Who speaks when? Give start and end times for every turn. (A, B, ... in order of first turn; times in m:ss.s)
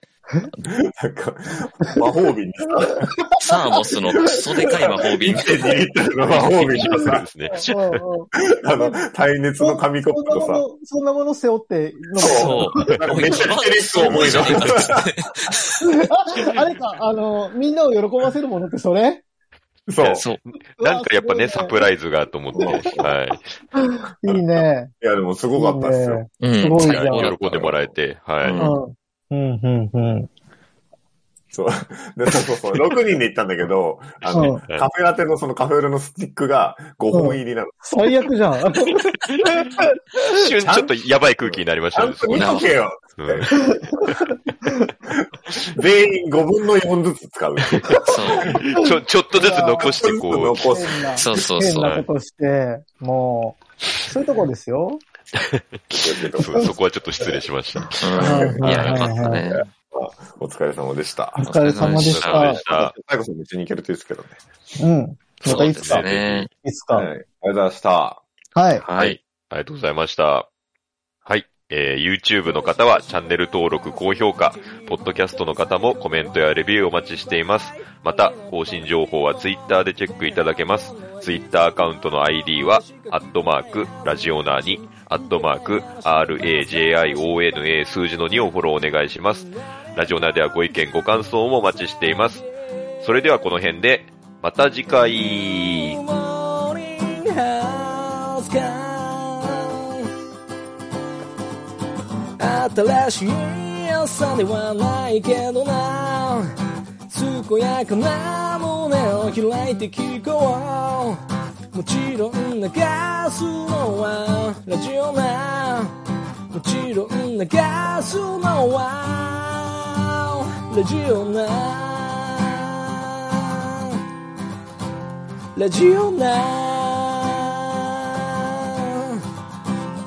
0:00.7-0:03.1 A
0:03.4-0:07.1 B
0:04.3-0:07.2 A
0:06.7-0:08.0 C
0:07.5-0:09.0 D
0:08.4-0:10.6 A
0:09.6-0:13.0 D
0:12.2-0:15.0 A
0:12.2-0:15.6 B
0:15.8-0:19.2 D
0:19.9-0:20.2 A
0:20.0-0:23.5 C
0:20.1-0:20.4 B
0:20.8-0:21.9 D
0:22.6-0:22.9 D
0:22.6-0:23.1 A
0:23.8-0:24.9 D
0:24.2-0:26.2 A
0:25.5-0:27.3 D
0:26.4-0:27.4 B
0:26.8-0:28.6 C
0:27.4-0:28.8 A
0:28.4-0:28.8 B
0:28.6-0:30.3 D
0:31.5-0:37.8 A
0:34.3-0:34.6 D
0:34.4-0:34.8 C
0:37.1-0:40.2 D
0:39.3-0:39.6 C
0:40.3-0:42.6 C
0:40.6-0:43.8 A
0:42.3-0:42.7 B
0:43.2-0:43.5 C
0:43.6-0:43.9 D
0:45.1-0:48.6 A
0:47.8-0:50.7 C
0:48.0-0:48.5 B
0:49.3-0:55.0 D
0:49.8-0:51.4 A
0:51.2-0:52.0 B
0:55.4-0:59.1 C
0:55.9-0:56.7 A
0:58.0-0:59.7 B
0:58.2-0:58.6 A
0:58.2-0:59.4 D
0:59.5-1:01.5 A
1:01.4-1:02.6 D
1:01.4-1:02.6 B
1:01.8-1:02.9 C
1:02.6-1:04.4 A
1:04.8-1:06.1 D
1:05.4-1:06.5 C
1:05.4-1:06.5 B
1:06.6-1:07.1 D
1:06.9-1:08.2 A
1:08.6-1:08.9 D
1:08.8-1:09.2 B
1:09.0-1:10.5 C
1:11.3-1:32.5 C
1:14.6-1:16.4 E
1:17.4-1:18.7 E
1:20.0-1:21.2 E
1:22.7-1:23.2 E
1:23.8-1:27.1 E
1:33.0-1:36.0 C
1:36.1-1:39.9 E
1:42.4-1:46.4 E
1:47.1-1:51.2 E
1:51.7-1:55.9 E
1:56.5-2:03.7 E
2:05.6-2:09.1 E